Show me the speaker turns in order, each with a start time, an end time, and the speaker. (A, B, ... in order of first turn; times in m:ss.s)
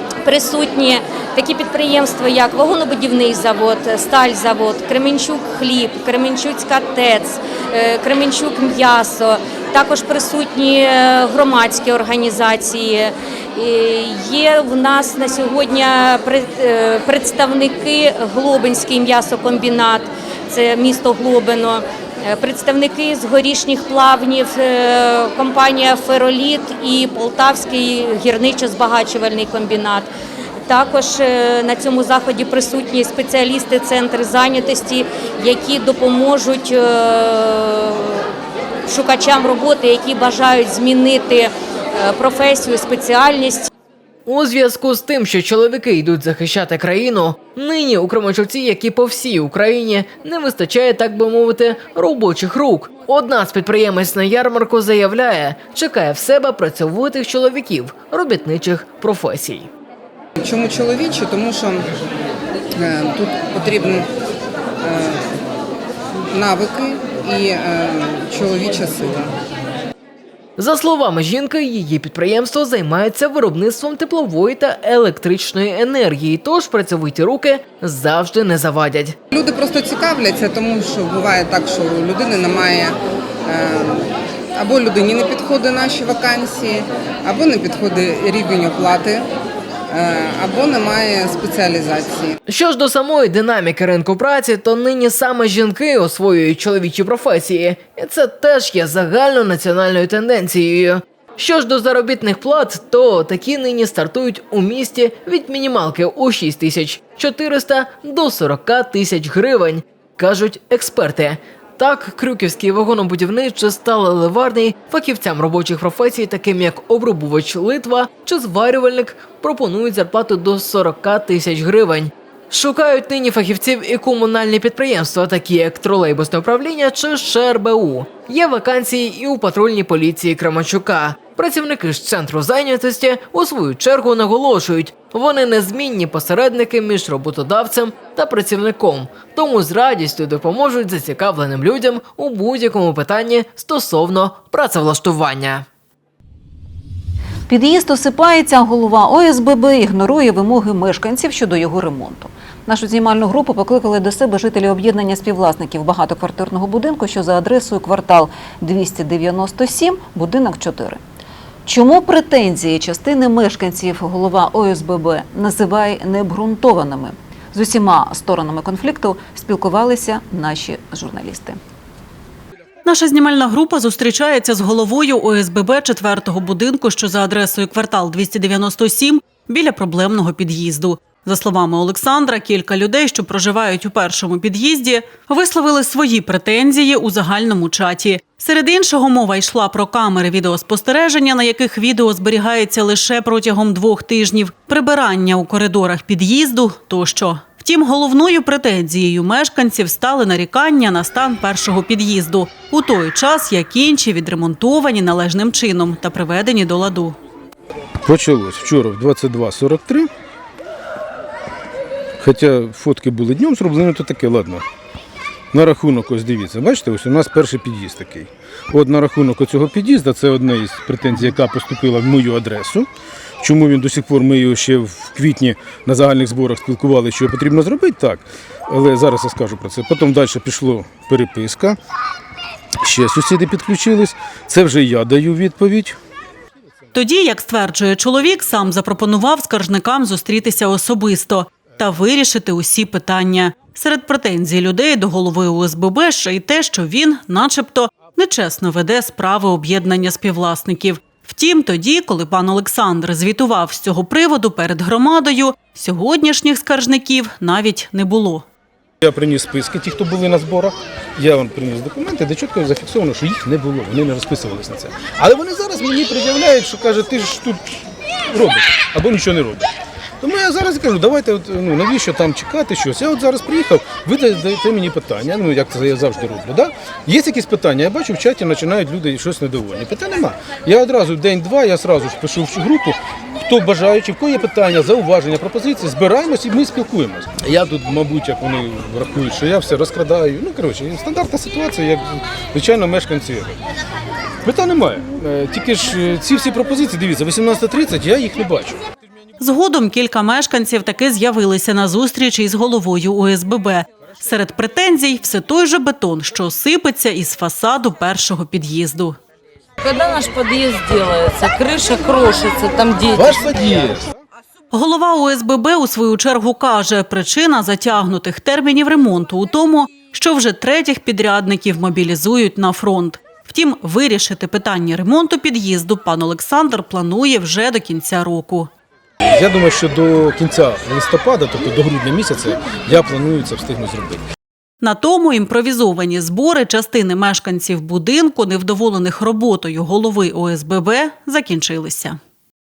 0:00.2-0:30.1 A
0:30.7-0:38.3 A
0:38.9-0:43.7 A
0:44.3-0:59.7 B
1:00.4-1:01.9 C
1:02.7-1:04.1 C
1:04.8-1:05.3 C
1:06.3-1:09.3 C
1:10.6-1:19.2 B
1:19.3-1:29.3 C
1:29.9-1:32.4 C
1:32.5-2:25.6 B
2:27.5-2:41.0 D
2:41.7-2:51.6 D
2:52.8-3:27.2 E
3:28.0-3:30.1 F
3:32.2-3:34.6 F
3:35.5-3:42.9 F
3:43.4-3:51.8 F
3:52.8-3:56.0 F
3:56.9-4:18.5 E
4:19.0-4:29.7 F
4:30.2-4:53.6 F
4:54.4-4:58.8 F
4:59.4-5:09.2 E
5:09.8-5:13.6 G
5:13.2-5:14.1 F
5:14.7-5:28.7 E
5:29.3-5:34.2 F
5:34.8-5:42.2 E